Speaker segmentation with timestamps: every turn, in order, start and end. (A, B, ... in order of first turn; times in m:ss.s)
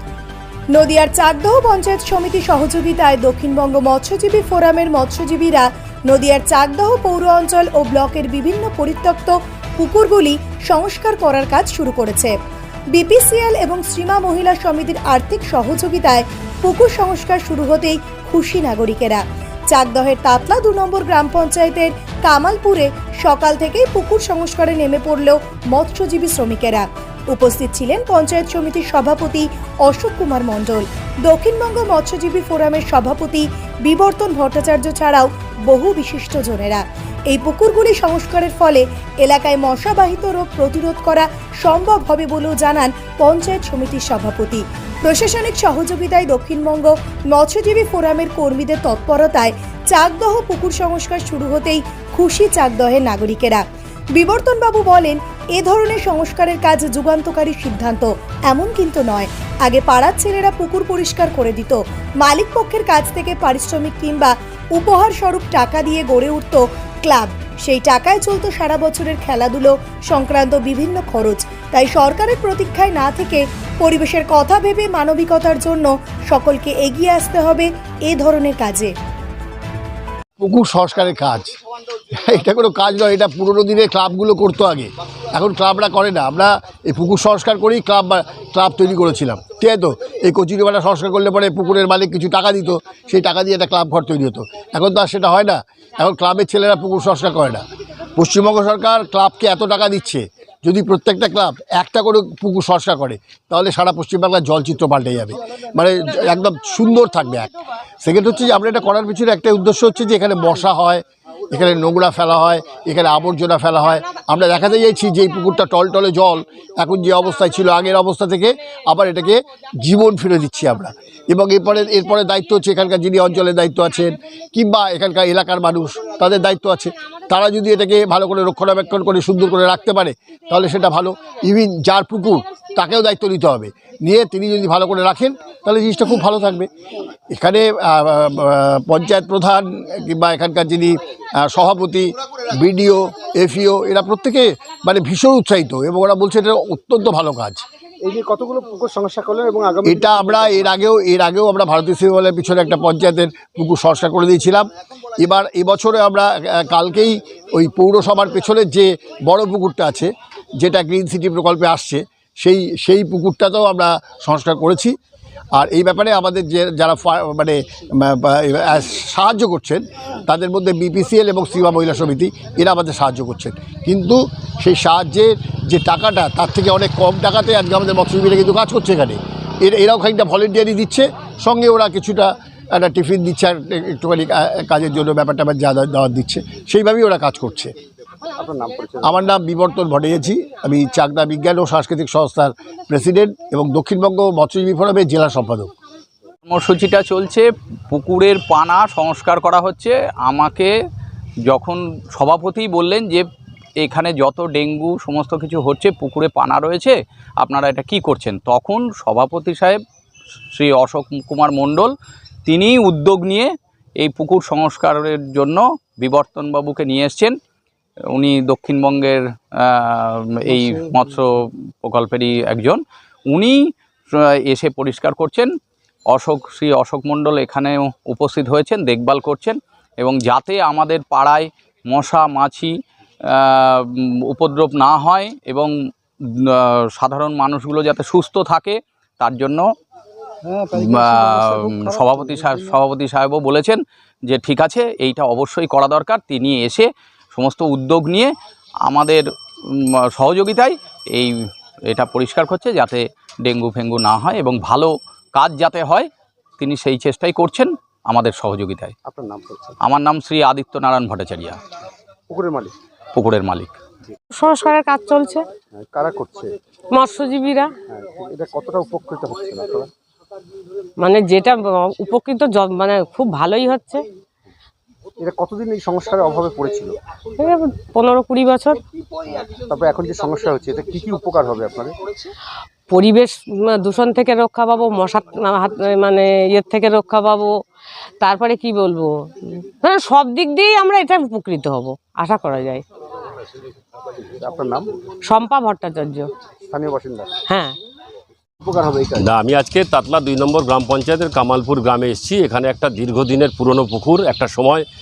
0:00.7-0:12.3 A
0:12.9-0:53.6 A
0:54.2-1:18.9 A
1:20.4-1:21.5 B
1:22.2-1:37.6 B
1:38.2-1:47.5 B
1:48.0-2:16.7 B
2:17.3-2:27.6 B
2:28.0-2:30.7 C
2:29.8-2:34.7 B
2:35.2-2:44.9 B
2:45.5-3:07.7 B
3:08.4-3:09.1 C
3:09.0-3:15.7 B
3:16.5-3:20.7 D
3:21.5-3:23.2 D
3:23.8-3:29.8 D
3:30.5-3:31.9 D
3:32.4-3:37.4 D
3:38.1-3:42.8 D
3:43.3-3:43.6 D
3:44.1-3:45.5 D
3:46.1-3:52.7 D
3:53.3-3:55.7 D
3:56.4-3:59.6 D
4:00.7-4:08.3 D
4:00.9-4:01.8 C
4:02.3-4:02.6 C
4:08.8-4:11.3 D
4:11.9-4:16.1 D
4:16.6-4:18.9 D
4:19.0-4:19.8 C
4:19.8-4:21.6 D
4:22.3-4:22.7 C
4:23.1-4:23.7 D
4:24.3-4:25.4 E
4:25.8-4:26.5 C
4:26.9-4:27.7 E
4:27.9-4:29.9 C
4:31.0-4:34.0 E
4:35.2-4:36.9 C
4:37.4-4:38.8 E
4:39.3-4:42.1 C
4:42.9-4:47.5 E
4:48.2-4:52.8 E
4:54.2-4:54.9 C
4:55.2-4:56.3 E
4:56.7-4:57.3 C
4:57.5-4:57.7 E
4:58.6-4:59.3 C
4:59.2-5:04.8 F